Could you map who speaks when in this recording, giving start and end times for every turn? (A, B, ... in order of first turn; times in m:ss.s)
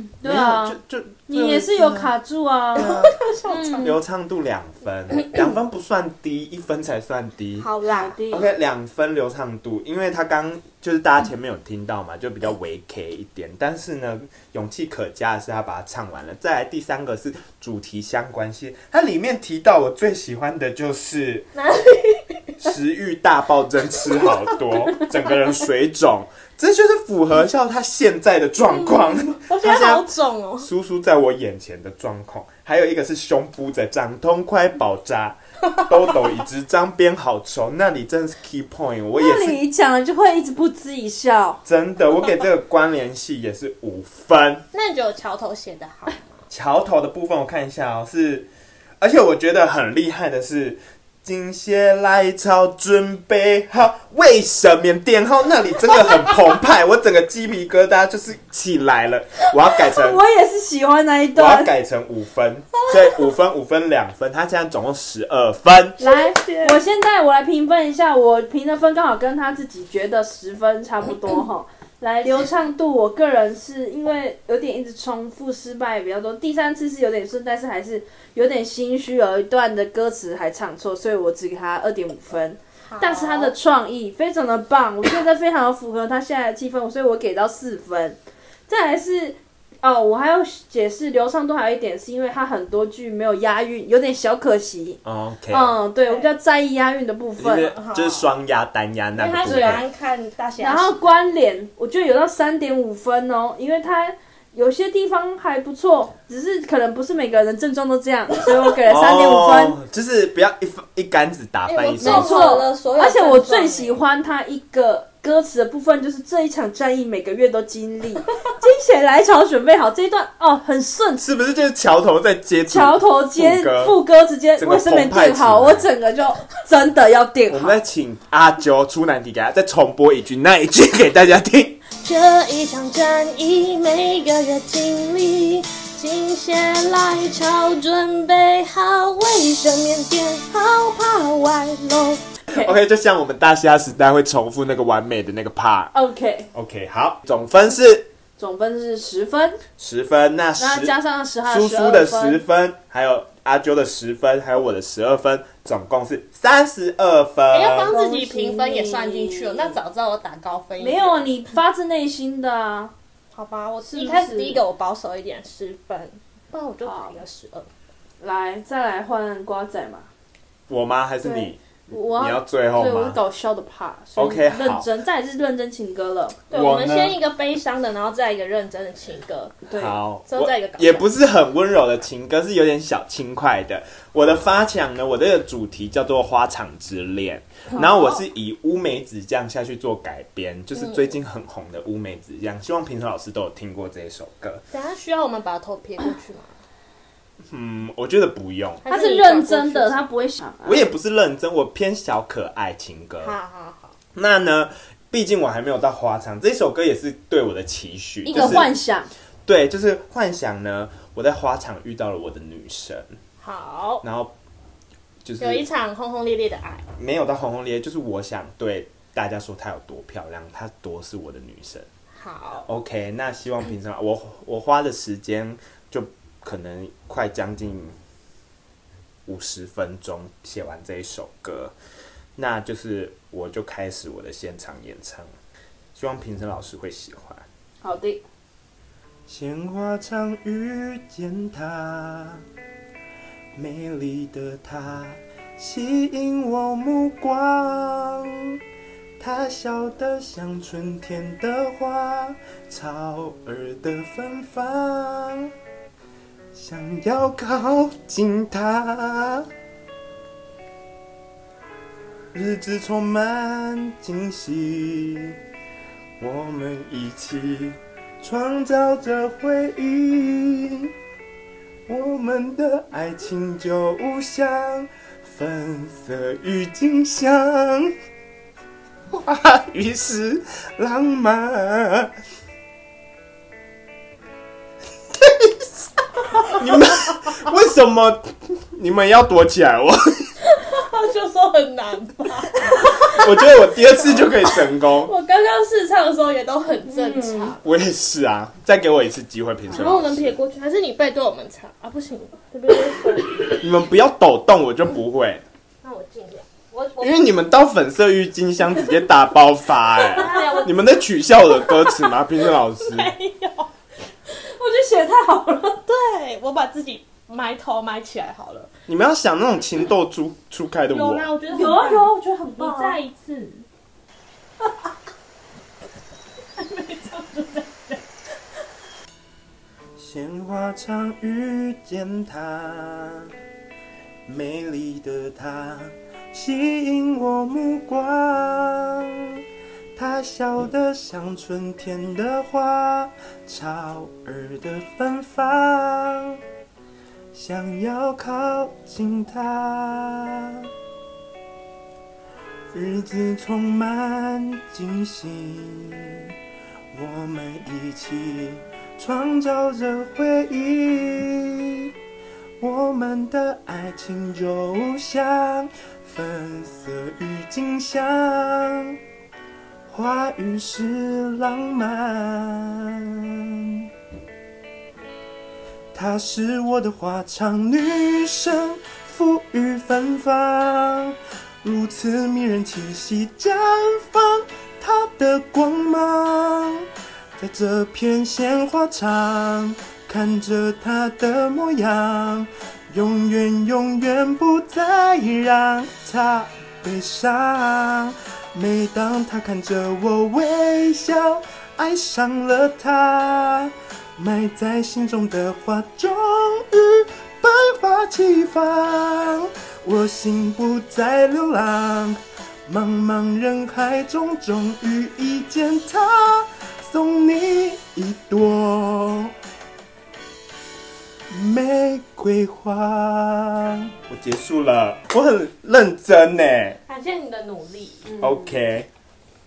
0:00.2-0:00.8 A
0:00.2-0:02.1 B
0:01.3-0:04.0 A
0:02.8-0:03.9 C
0:02.8-0:03.1 B
0:03.8-0:07.7 B
0:07.6-0:08.2 C
0:07.9-0:08.5 A
0:08.3-0:21.5 B
0:21.6-0:22.6 C
0:22.6-0:30.1 B
0:28.6-0:30.7 C
0:30.6-0:39.6 B
0:39.2-0:41.6 A
0:41.6-0:44.7 B
0:44.7-0:46.4 C
0:46.5-1:00.2 B
0:59.8-1:01.7 A
1:01.4-1:06.0 B
1:06.0-1:06.8 C
1:06.0-1:37.7 A
1:22.9-1:23.5 C
1:35.0-1:35.8 B
1:36.0-1:36.3 C
1:37.4-1:39.8 B
1:37.6-1:38.3 C
1:39.2-1:41.0 C
1:39.5-1:39.8 A
1:40.6-1:49.8 A
1:48.9-1:52.6 B
1:51.7-1:54.0 C
1:52.0-2:01.3 A
2:01.2-2:04.0 B
2:02.7-2:07.8 A
2:04.6-2:05.9 B
2:07.5-2:11.8 B
2:12.0-2:22.2 C
2:22.5-2:22.8 A
2:22.5-2:25.9 B
2:25.9-2:26.5 A
2:26.5-2:28.1 B
2:28.4-2:29.6 A
2:29.8-2:31.0 B
2:30.6-2:32.4 A
2:31.5-2:37.9 B
2:37.5-2:41.3 C
2:37.9-2:39.8 A
2:40.8-2:42.9 A
2:43.3-2:47.7 C
2:43.9-2:44.6 A
2:46.8-2:47.2 A
2:48.2-2:50.1 A
2:50.7-2:53.2 B
2:51.2-2:56.4 A
2:54.2-2:54.9 B
2:56.5-2:59.6 C
2:56.5-2:57.2 B
2:59.7-3:00.0 A
2:59.8-3:14.6 B
3:00.3-3:01.1 C
3:07.7-3:08.2 A
3:10.8-3:11.2 C
3:14.7-3:16.6 C
3:17.5-3:18.8 B
3:18.8-3:20.0 C
3:18.9-3:20.9 A
3:20.6-3:23.4 B
3:23.2-3:24.0 C
3:24.2-3:28.7 B
3:28.3-3:29.1 A
3:28.3-3:28.7 C
3:29.5-3:33.1 B
3:33.4-3:34.0 C
3:34.0-3:34.3 B
3:35.2-3:35.7 B
3:35.4-3:36.9 C
3:37.0-3:41.9 B
3:42.2-3:42.7 C
3:42.7-3:48.0 B
3:49.3-3:51.8 B
3:52.4-3:55.3 B
3:56.0-3:57.4 B
3:57.8-3:58.2 A
3:59.3-4:02.4 B
4:03.6-4:08.6 B
4:09.2-4:15.5 B
4:16.5-4:19.5 B
4:22.3-4:25.4 B
4:26.2-4:30.9 B
4:31.9-4:38.0 B
4:39.1-4:42.1 B
4:45.2-4:45.7 B
4:46.4-4:50.3 B
4:50.4-4:57.6 C
4:52.9-4:55.1 B
4:56.9-4:57.6 A
4:57.6-5:00.3 B
4:59.7-5:03.6 C
5:03.6-5:05.4 B
5:05.8-5:07.2 C
5:07.0-5:13.1 B
5:10.0-5:12.2 C
5:10.3-5:10.7 A
5:12.8-5:13.7 C
5:14.3-5:15.8 A
5:15.8-5:18.7 C
5:18.9-5:21.3 B
5:20.9-5:23.6 C
5:21.5-5:23.0 A
5:26.6-5:28.1 C
5:30.0-5:33.3 B
5:34.3-5:39.4 B
5:40.0-5:46.4 B
5:47.3-5:50.7 B
5:52.7-5:56.3 B
5:56.9-6:01.9 B
6:02.6-6:09.0 B
6:09.9-6:13.9 B
6:15.9-6:59.3 B
7:01.3-7:06.8 B
7:06.9-7:08.1 C
7:08.0-7:08.6 A
7:08.2-7:08.9 B